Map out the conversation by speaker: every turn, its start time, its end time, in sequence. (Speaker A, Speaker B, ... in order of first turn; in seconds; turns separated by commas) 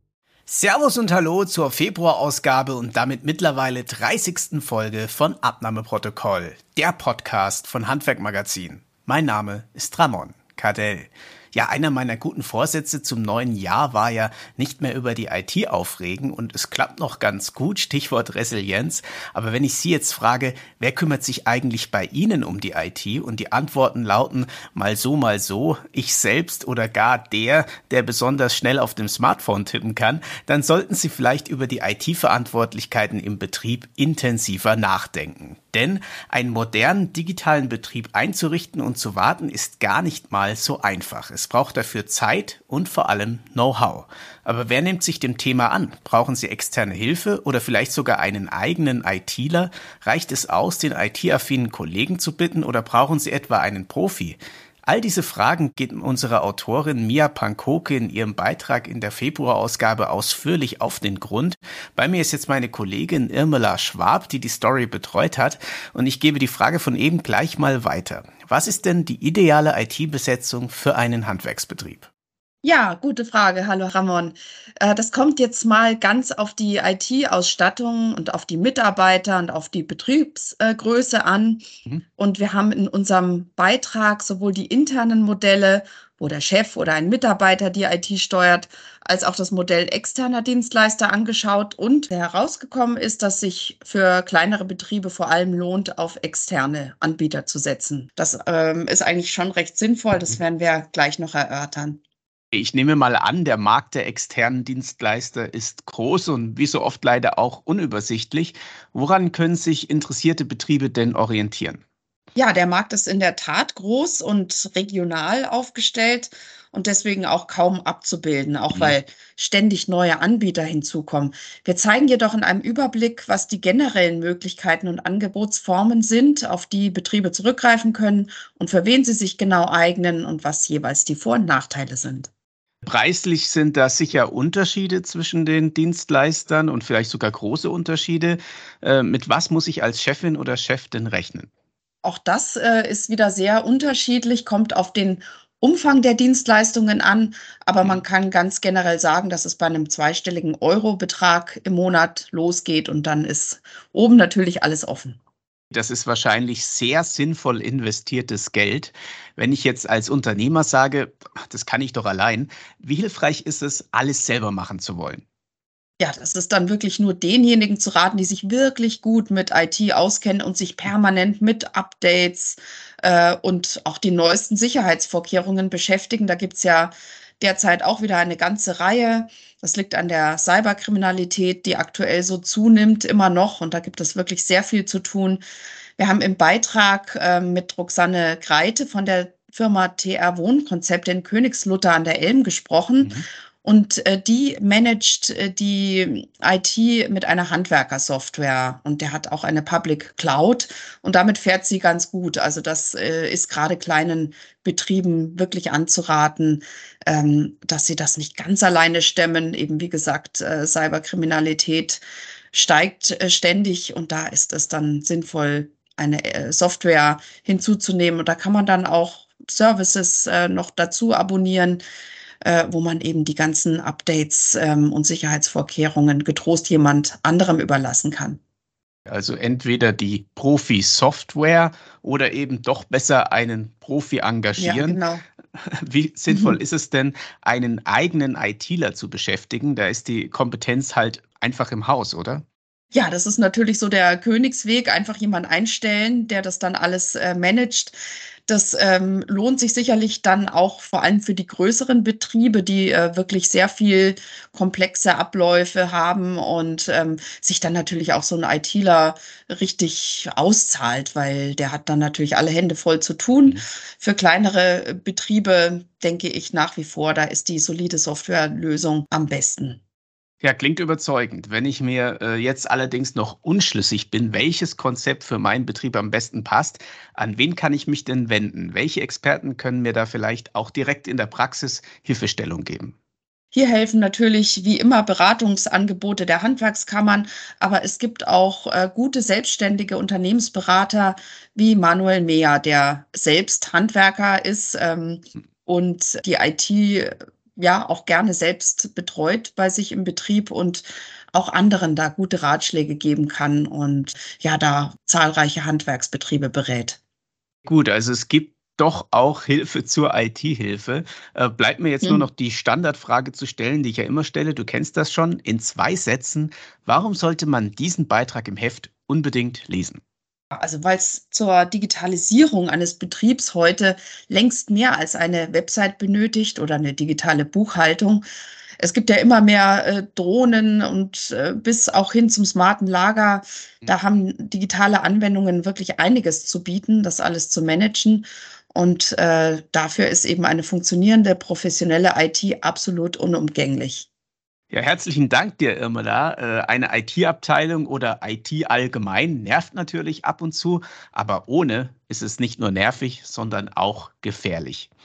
Speaker A: 0.5-72.1, Speaker B: 72.6-81.6, Speaker B: 82.2-102.0, Speaker A: 102.5-111.8, Speaker B: 112.3-132.3, Speaker A: 132.8-141.5, Speaker B: 142.0-155.2, Speaker A: 155.7-165.2, Speaker B: 166.0-185.4, Speaker B: 186.0-221.8, Speaker A: 193.0-193.2, Speaker B: 222.4-228.4, Speaker A: 229.1-235.0, Speaker B: 234.6-235.2, Speaker A: 235.6-242.4, Speaker B: 236.3-236.6, Speaker B: 242.9-247.9, Speaker B: 248.5-269.8, Speaker A: 270.4-282.9, Speaker B: 283.5-307.0, Speaker A: 307.6-320.0, Speaker B: 320.5-328.2, Speaker B: 328.8-344.1, Speaker A: 344.7-354.9